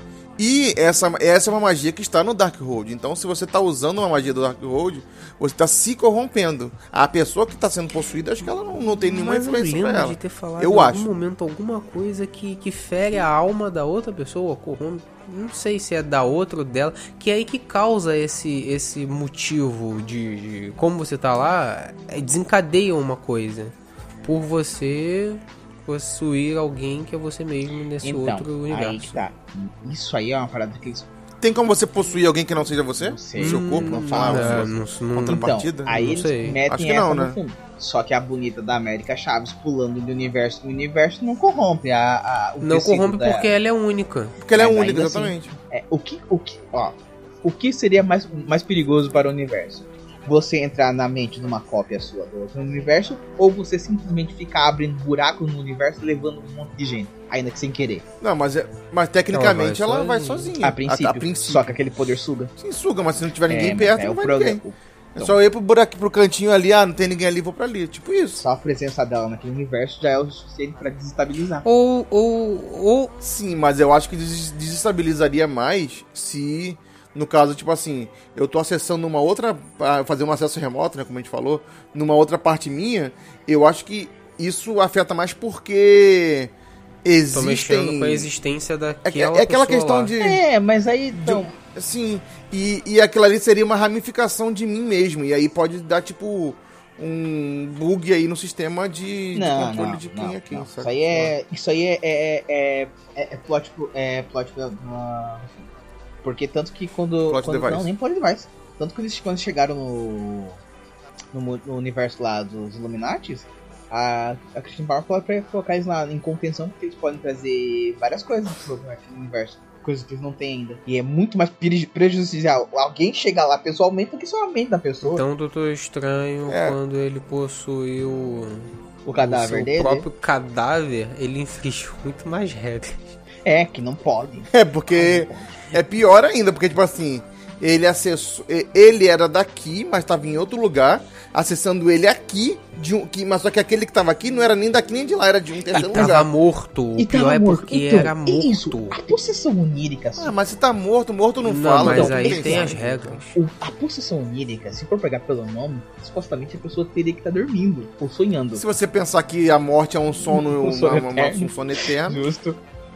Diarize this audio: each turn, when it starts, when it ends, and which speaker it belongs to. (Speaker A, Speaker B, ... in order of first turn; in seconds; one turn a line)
Speaker A: 0.4-11.1
Speaker B: 9.0-29.2
Speaker C: 28.0-31.1
Speaker A: 31.4-36.0
Speaker C: 33.0-43.5
Speaker B: 33.4-36.6
Speaker A: 36.7-37.4
Speaker B: 42.6-44.4
Speaker A: 44.4-45.5
Speaker C: 44.5-58.0
Speaker A: 58.2-61.8
Speaker B: 59.3-60.5
Speaker C: 60.6-62.5
Speaker A: 62.6-64.6
Speaker C: 63.5-65.3
Speaker A: 65.2-68.4
Speaker C: 68.4-71.6
Speaker B: 71.6-73.1
Speaker A: 73.2-86.5
Speaker A: 87.0-88.3
Speaker B: 87.3-90.1
Speaker A: 89.0-90.4
Speaker C: 90.2-91.5
Speaker A: 91.2-101.3
Speaker C: 99.3-105.7
Speaker C: 106.2-110.6
Speaker A: 107.3-107.9
Speaker C: 111.3-125.2
Speaker B: 125.0-133.1
Speaker A: 126.5-126.8
Speaker C: 129.1-130.1
Speaker C: 133.4-135.7
Speaker A: 134.5-146.3
Speaker B: 145.7-149.0
Speaker C: 147.0-150.3
Speaker A: 150.2-153.2
Speaker B: 151.4-153.4
Speaker C: 151.8-152.8
Speaker C: 153.3-158.6
Speaker A: 158.6-162.2
Speaker C: 160.3-162.6